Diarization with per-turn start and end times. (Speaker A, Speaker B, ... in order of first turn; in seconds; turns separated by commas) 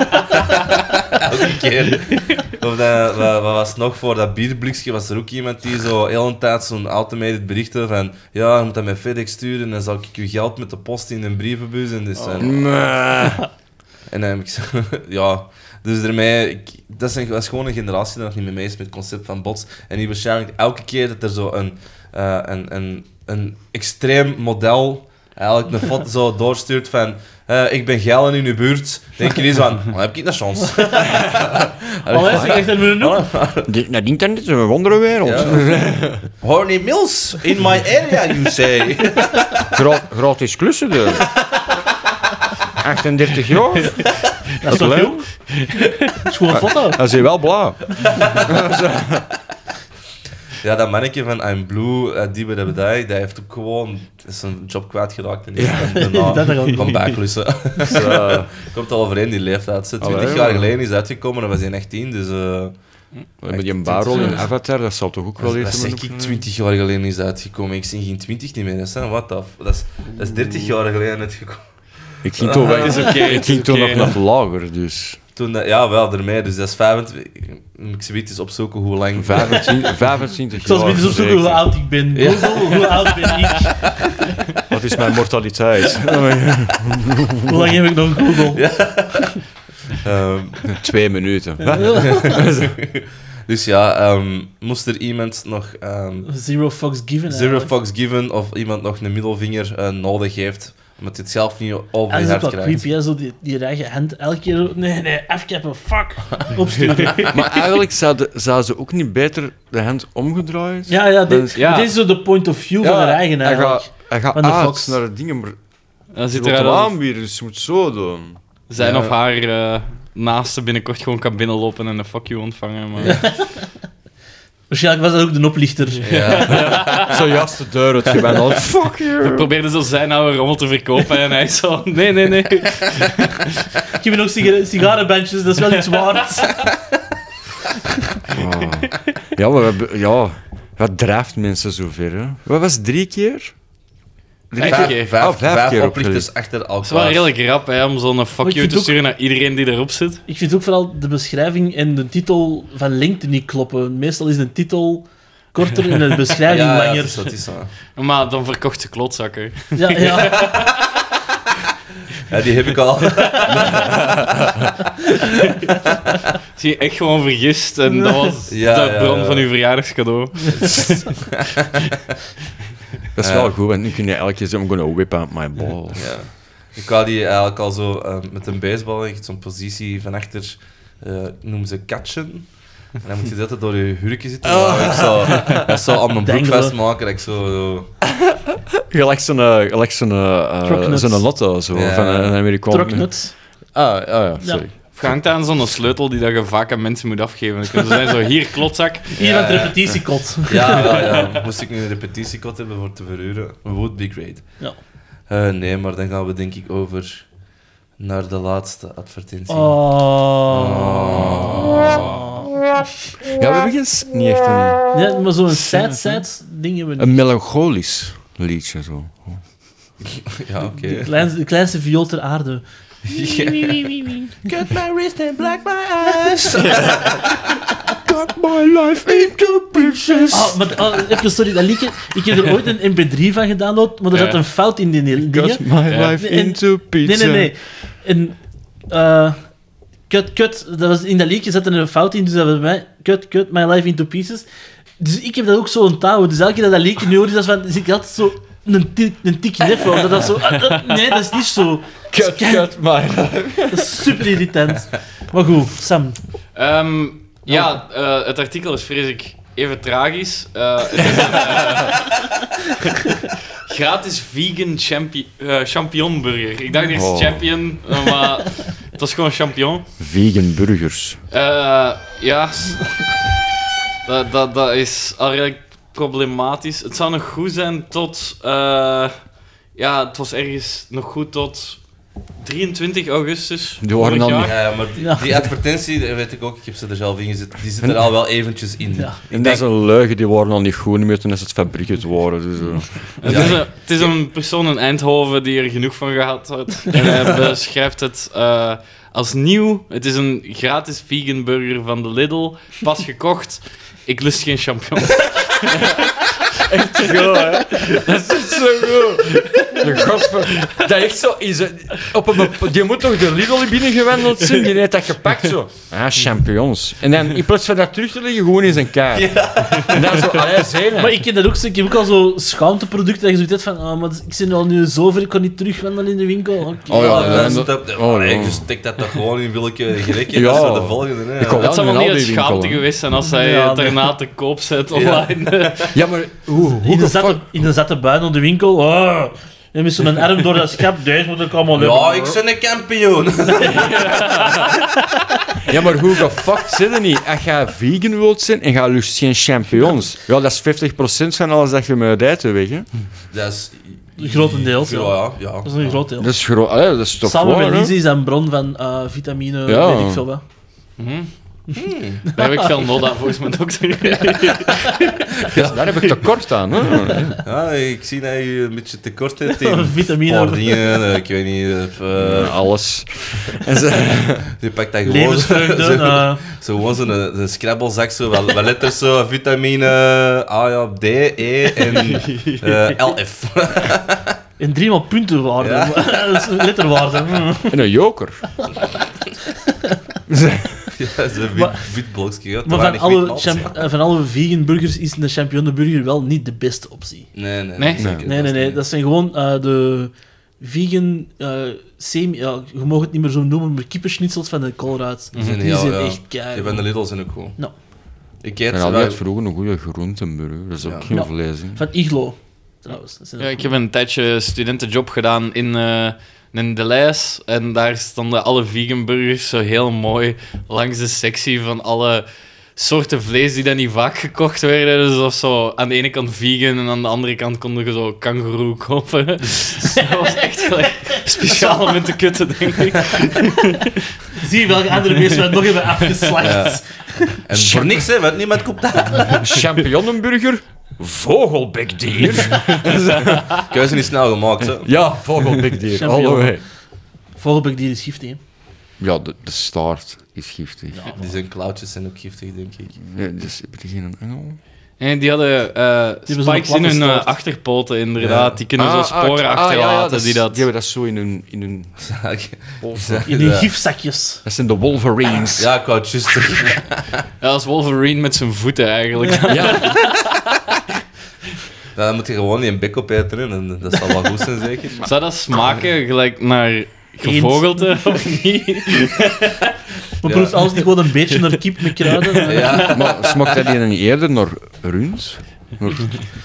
Speaker A: 0.3-12.7, Speaker B: 12.4-13.4, Speaker A: 14.1-33.7, Speaker C: 32.1-33.3, Speaker B: 32.2-32.7, Speaker B: 33.6-36.2, Speaker A: 35.2-39.6, Speaker B: 39.7-41.3, Speaker B: 42.8-45.3, Speaker C: 44.6-45.3, Speaker C: 46.2-47.0, Speaker B: 46.5-49.3, Speaker A: 50.6-62.7, Speaker B: 55.5-56.2, Speaker C: 55.9-57.2, Speaker B: 57.8-58.5, Speaker B: 60.0-60.7, Speaker B: 63.4-66.5, Speaker A: 63.5-64.5, Speaker A: 65.4-71.6, Speaker B: 72.2-75.2, Speaker A: 72.3-73.2, Speaker D: 72.5-74.2, Speaker A: 75.3-79.8, Speaker B: 79.2-81.8, Speaker C: 80.6-83.8, Speaker A: 82.1-83.9, Speaker B: 84.7-87.8, Speaker C: 87.5-88.6, Speaker A: 88.4-89.4, Speaker A: 89.9-90.8, Speaker B: 90.7-92.8, Speaker C: 91.6-92.3, Speaker A: 92.0-96.3, Speaker C: 96.2-97.7, Speaker A: 97.3-102.9, Speaker C: 102.1-107.6, Speaker B: 107.3-111.8, Speaker C: 110.9-115.0, Speaker D: 111.5-111.9, Speaker B: 112.8-115.6, Speaker D: 116.1-116.9, Speaker B: 116.3-118.4, Speaker D: 118.7-123.2, Speaker A: 118.8-119.1, Speaker A: 123.0-123.3, Speaker C: 123.2-123.5, Speaker C: 124.7-126.0, Speaker A: 126.0-127.2, Speaker D: 126.1-127.2, Speaker B: 126.5-129.5, Speaker D: 129.2-133.5, Speaker C: 133.9-136.7, Speaker B: 138.3-143.5, Speaker B: 144.5-146.3, Speaker D: 144.6-145.1, Speaker A: 144.6-147.3, Speaker D: 146.8-150.2, Speaker C: 148.4-148.9, Speaker C: 150.3-157.3, Speaker A: 156.4-157.7, Speaker D: 157.9-160.7, Speaker C: 159.7-160.5, Speaker A: 162.2-163.9, Speaker B: 163.5-164.7, Speaker D: 166.6-171.0, Speaker C: 168.0-168.3, Speaker A: 168.5-169.5, Speaker A: 170.5-171.8, Speaker B: 173.2-176.1, Speaker A: 173.2-173.5, Speaker A: 175.9-187.9, Speaker B: 184.4-185.8, Speaker C: 186.2-186.8, Speaker B: 188.3-195.2, Speaker C: 190.6-191.2, Speaker A: 191.7-192.4, Speaker C: 192.7-193.3, Speaker C: 194.4-194.6, Speaker D: 194.9-199.1, Speaker A: 199.2-199.9, Speaker C: 199.2-201.1, Speaker A: 200.5-204.6, Speaker A: 205.3-207.3, Speaker A: 208.0-212.4, Speaker C: 209.5-212.5, Speaker B: 211.2-211.9, Speaker B: 213.3-216.2, Speaker C: 214.9-217.2, Speaker B: 217.0-219.4, Speaker A: 220.3-221.1, Speaker C: 220.9-222.6, Speaker A: 223.1-227.4, Speaker B: 226.5-227.2, Speaker B: 228.0-231.0, Speaker A: 229.9-230.3, Speaker C: 230.3-235.7, Speaker D: 234.1-234.4, Speaker B: 235.2-237.5, Speaker D: 235.9-236.2, Speaker C: 236.2-238.4, Speaker C: 238.9-239.4, Speaker C: 240.1-244.5, Speaker C: 245.0-252.7, Speaker B: 252.1-254.3, Speaker C: 253.7-256.2, Speaker D: 256.5-262.4, Speaker D: 263.7-269.9, Speaker B: 266.9-267.5, Speaker B: 270.0-271.2, Speaker D: 271.3-273.1, Speaker D: 274.0-279.2, Speaker D: 279.7-281.8, Speaker D: 282.4-284.5, Speaker B: 283.8-284.6, Speaker A: 284.4-289.6, Speaker C: 285.0-285.3, Speaker B: 287.8-288.1, Speaker B: 289.3-293.6, Speaker D: 293.2-306.2, Speaker A: 293.2-293.6, Speaker B: 305.7-321.2, Speaker D: 307.0-308.0, Speaker D: 309.3-309.9, Speaker A: 319.1-320.6, Speaker C: 320.9-327.6, Speaker B: 326.9-328.6, Speaker A: 326.9-331.7, Speaker B: 330.3-332.8, Speaker D: 331.6-335.9, Speaker C: 333.2-334.1, Speaker A: 334.9-335.9, Speaker B: 335.9-337.5, Speaker C: 336.8-342.4, Speaker A: 341.7-344.2, Speaker B: 345.6-352.9, Speaker A: 353.3-356.0, Speaker C: 354.2-356.3, Speaker B: 356.2-357.9, Speaker C: 357.2-360.4, Speaker B: 359.7-360.2, Speaker D: 361.0-361.3, Speaker A: 361.7-362.3, Speaker C: 362.3-362.6, Speaker D: 362.4-365.2, Speaker A: 365.4-366.2, Speaker B: 365.6-367.4, Speaker A: 367.4-372.6, Speaker C: 369.5-370.9, Speaker B: 372.1-374.5, Speaker A: 374.5-384.4, Speaker C: 375.1-376.4, Speaker D: 381.9-383.0, Speaker C: 384.6-387.8, Speaker A: 385.6-386.2, Speaker B: 387.7-388.5, Speaker B: 390.3-390.9, Speaker A: 390.9-393.7, Speaker C: 391.6-391.8, Speaker C: 392.6-397.3, Speaker A: 397.3-398.8, Speaker D: 397.8-398.0, Speaker B: 398.0-398.3, Speaker C: 398.2-407.0, Speaker D: 405.3-405.6, Speaker A: 405.3-407.6, Speaker A: 408.4-409.2, Speaker B: 408.7-411.8, Speaker A: 410.8-411.1, Speaker C: 411.1-413.7, Speaker D: 413.4-434.0, Speaker C: 431.4-432.0, Speaker C: 434.3-437.4, Speaker A: 436.4-436.8, Speaker A: 437.4-439.6, Speaker B: 437.5-438.1, Speaker B: 439.2-443.6, Speaker A: 443.7-444.9, Speaker B: 444.6-446.6, Speaker C: 445.9-446.7, Speaker C: 447.4-448.4, Speaker B: 449.0-451.0, Speaker A: 451.1-452.9, Speaker B: 453.0-454.6, Speaker D: 455.0-460.6, Speaker C: 456.3-457.3, Speaker A: 458.2-458.6, Speaker B: 458.8-461.9, Speaker A: 462.0-463.7, Speaker B: 462.8-463.3, Speaker C: 463.2-464.4, Speaker B: 464.4-465.7, Speaker A: 465.6-467.1, Speaker D: 467.4-470.1, Speaker B: 469.5-470.1, Speaker A: 471.9-475.1, Speaker D: 475.0-479.7, Speaker C: 477.2-478.2, Speaker C: 480.2-482.9, Speaker A: 480.2-480.8, Speaker A: 482.4-483.7, Speaker B: 482.7-486.2